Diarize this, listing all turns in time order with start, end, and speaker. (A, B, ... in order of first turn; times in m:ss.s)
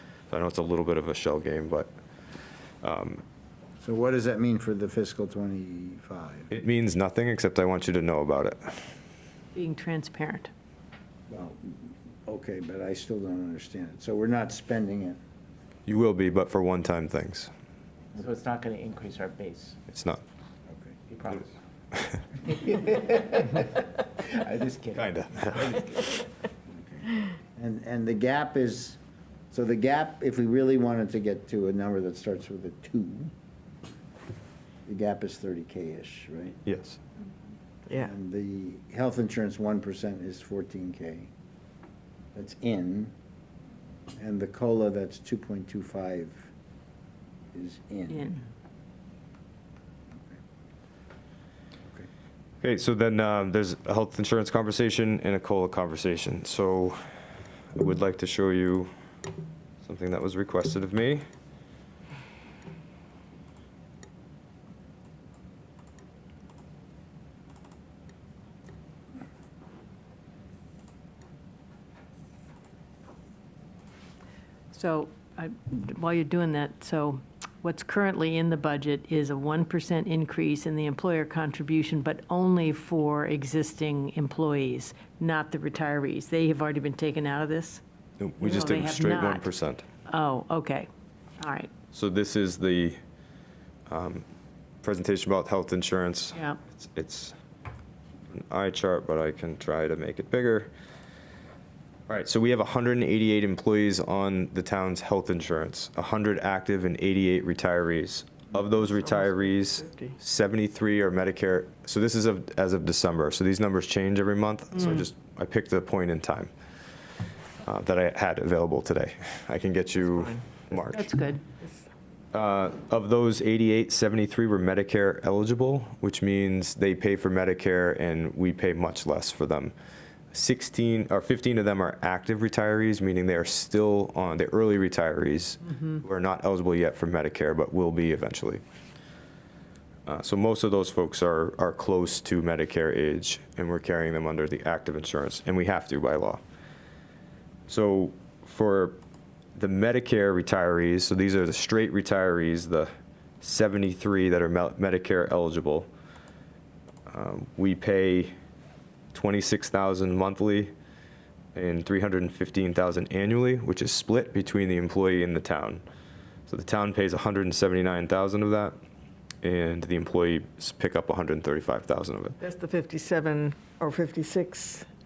0:00.3-0:01.9 A
0:02.8-0:03.2 A
0:03.8-0:06.5 B
0:06.5-0:08.9 A
0:09.5-0:10.5 C
0:11.3-0:15.2 B
0:15.9-0:17.5 A
0:18.2-0:19.8 D
0:19.9-0:20.2 A
0:20.7-0:21.0 B
0:21.1-0:21.4 D
0:22.4-0:26.2 D
0:24.9-0:25.8 A
0:26.7-0:29.0 B
0:29.5-0:33.3 B
0:34.9-0:36.6 B
0:36.7-0:37.0 A
0:37.9-0:41.3 B
0:42.4-0:43.1 B
0:44.2-0:46.5 B
0:47.5-0:48.4 B
0:48.1-0:48.4 C
0:52.6-0:57.0 A
0:57.7-0:58.9 A
0:59.8-1:01.2 A
1:14.7-1:27.8 C
1:28.2-1:29.8 A
1:28.4-1:29.5 C
1:30.1-1:30.9 C
1:31.4-1:31.7 C
1:31.9-1:33.0 A
1:33.9-1:34.2 A
1:34.8-1:37.4 A
1:36.3-1:36.6 C
1:38.3-1:40.7 A
1:42.1-1:56.5 A
1:48.9-1:50.1 E
1:57.6-2:01.1 A
2:00.9-2:01.4 C
2:02.3-2:09.7 A
2:10.3-2:18.6 A
2:20.1-2:26.4 A
2:27.7-2:29.0 A
2:29.6-2:32.9 A
2:33.4-2:35.9 A
2:37.1-2:38.3 A
2:39.1-2:40.7 A
2:41.6-2:45.8 A
2:46.5-2:48.8 A
2:49.4-2:52.4 A
2:52.4-2:54.9 E